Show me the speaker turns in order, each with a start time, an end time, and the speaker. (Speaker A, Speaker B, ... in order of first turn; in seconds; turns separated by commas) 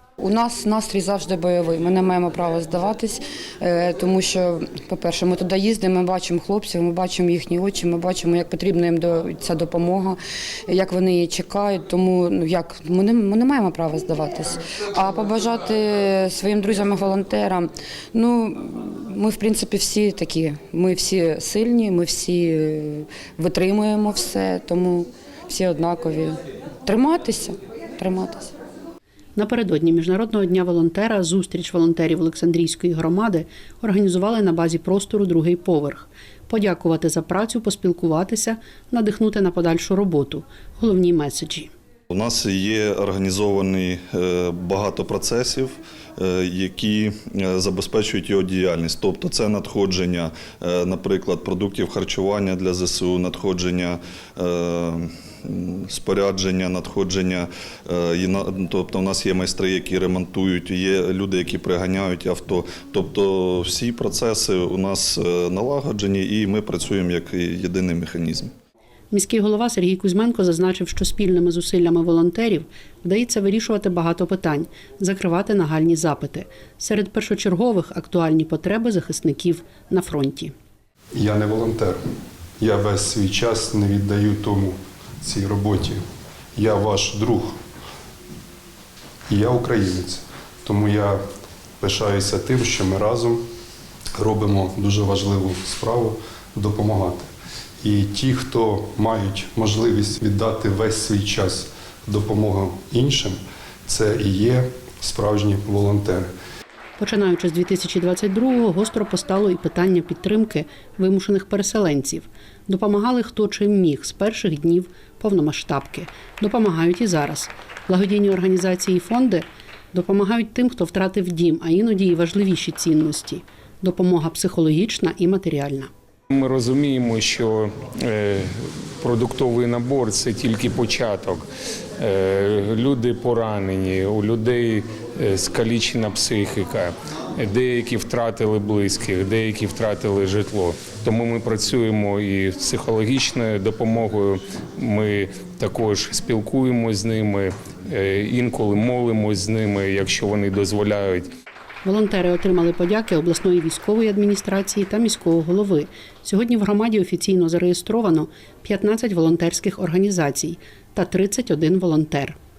Speaker A: 0.2-28.5, Speaker B: 29.4-41.7, Speaker C: 42.1-68.5, Speaker B: 69.1-80.5, Speaker D: 81.2-82.0, Speaker D: 82.6-86.0, Speaker D: 86.6-87.6, Speaker D: 89.3-91.2, Speaker D: 91.8-93.4, Speaker D: 94.2-97.3, Speaker D: 97.8-106.3, Speaker B: 107.0-125.9, Speaker E: 126.3-131.4, Speaker E: 132.0-151.3, Speaker B: 151.8-162.4